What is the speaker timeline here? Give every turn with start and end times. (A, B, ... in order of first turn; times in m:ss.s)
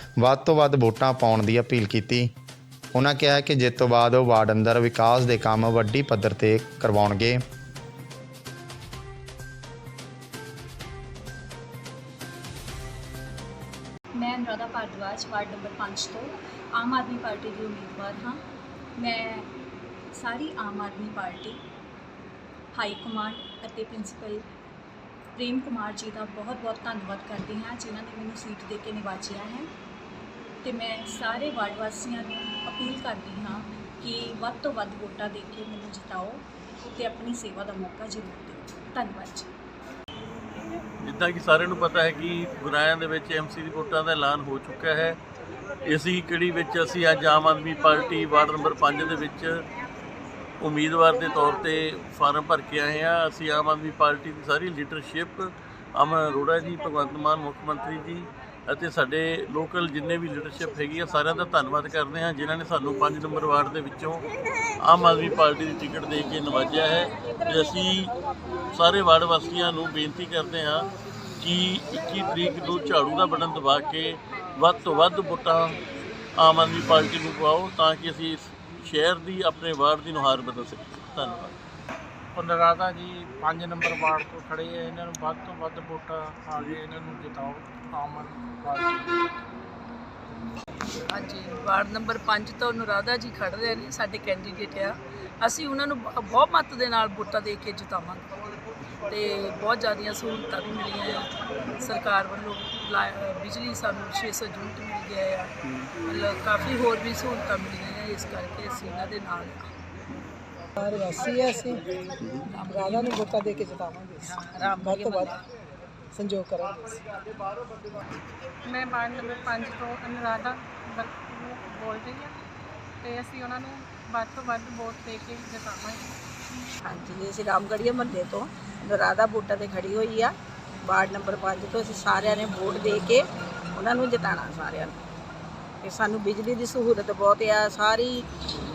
0:00.2-0:02.3 A
0:02.9-0:07.4 A
0:14.1-0:18.4 B
0:19.0-0:19.5 B
0:20.1-0:21.6 B
0:22.7-0:24.4 B
0:25.4-0:29.7 B
0:30.6-0:39.5 B
0:41.0-0:45.2 C
0:45.8-0:49.6 C
0:50.6-1:04.2 C
1:04.8-1:08.1 C
1:08.7-1:10.9 C
1:11.4-1:15.8 C
1:16.4-1:21.5 C
1:22.3-1:29.1 D
1:31.1-1:38.3 E
1:39.1-1:49.7 E
1:50.8-1:51.9 F
1:52.4-1:53.6 E
1:52.6-1:55.4 F
1:54.3-1:55.3 G
1:54.6-1:55.0 E
1:56.1-1:57.0 F
1:58.6-2:02.3 H
2:03.0-2:06.1 H
2:06.8-2:15.0 G
2:15.8-2:18.2 G